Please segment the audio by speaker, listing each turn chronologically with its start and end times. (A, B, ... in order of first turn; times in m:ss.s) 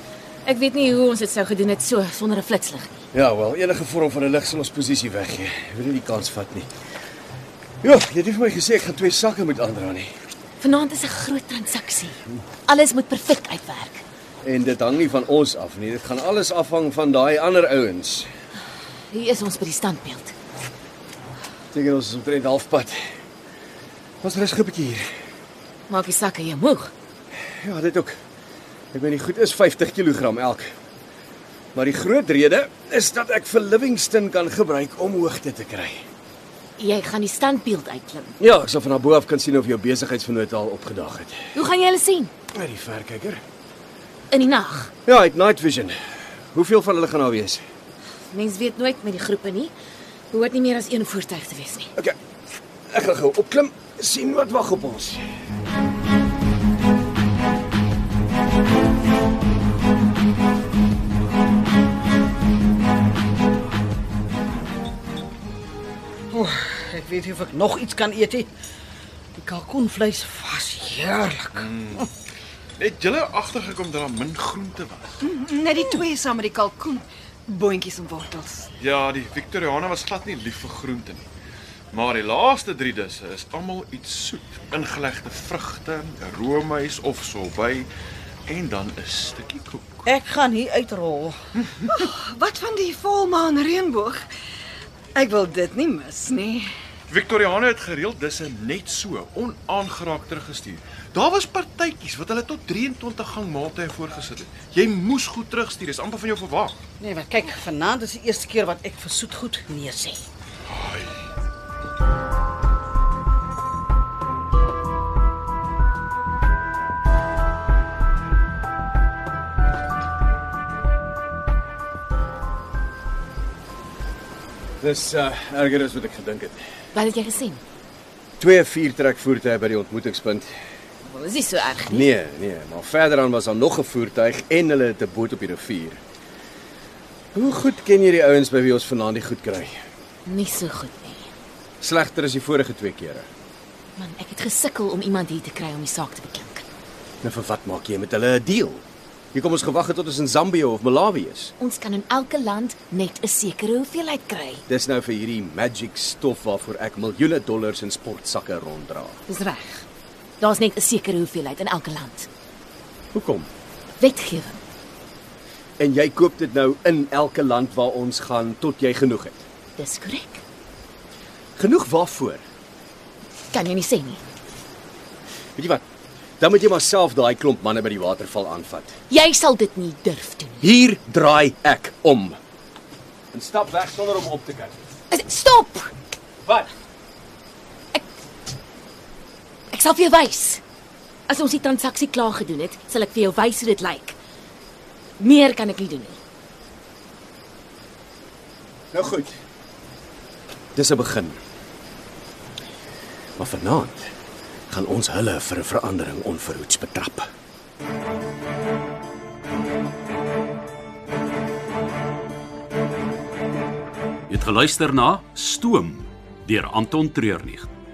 0:00.4-0:03.0 A
0:03.1-0:06.7 B
0:07.8-0:10.1 B
0:10.6-0:14.0 A
0:14.4-0:18.3 B
0:19.1-0:20.3 A
0:21.7-0:23.0 B
0:24.2-0:25.0 B
0:25.9-0:26.9 A
0:27.6-0:28.2 B
0:28.9-0:30.7 B
0:31.7-0:36.0 B
0:36.8-0:38.4 A
0:38.4-0:41.4 B
0:41.5-0:42.3 A
0:42.5-0:43.4 B
0:44.3-0:44.9 A
0:45.0-0:46.0 B
0:46.5-0:47.6 B
0:48.3-0:49.7 A
0:50.3-0:51.9 A
0:52.9-0:55.3 B
1:06.3-1:08.5 C
1:09.4-1:11.7 C
1:11.5-1:12.1 D
1:12.8-1:15.2 D
1:15.2-1:18.7 E
1:18.8-1:21.2 D
1:21.9-1:27.9 D
1:28.5-1:30.0 D
1:30.0-1:31.4 C
1:31.9-1:34.2 E
1:35.1-1:36.7 E
1:37.1-1:46.8 D
1:47.0-1:50.2 C
1:50.7-1:51.1 D
2:04.8-2:06.6 B
2:06.9-2:07.6 A
2:08.4-2:10.5 B
2:11.0-2:12.1 A
2:11.9-2:16.0 B
2:17.3-2:19.8 B
2:20.2-2:21.3 A
2:21.8-2:23.3 B
2:24.0-2:26.6 A
2:27.2-2:31.5 B
2:31.6-2:34.6 A
2:34.7-2:39.2 B
2:39.3-2:39.8 A
2:40.4-2:42.3 A
2:43.1-2:43.5 B
2:44.0-2:44.6 A
2:45.8-2:49.4 B
2:49.8-2:50.4 A
2:51.6-2:52.4 B
2:53.5-2:54.2 A
2:55.6-2:55.8 B
2:56.4-2:58.9 B
2:59.1-3:00.7 A
3:00.6-3:02.4 B
3:03.3-3:04.8 B
3:05.1-3:05.9 A
3:09.7-3:10.6 A
3:11.3-3:14.2 A
3:15.2-3:16.2 A
3:18.9-3:19.4 B
3:20.7-3:21.4 B
3:23.4-3:24.1 B
3:24.7-3:27.3 B
3:34.3-3:37.7 F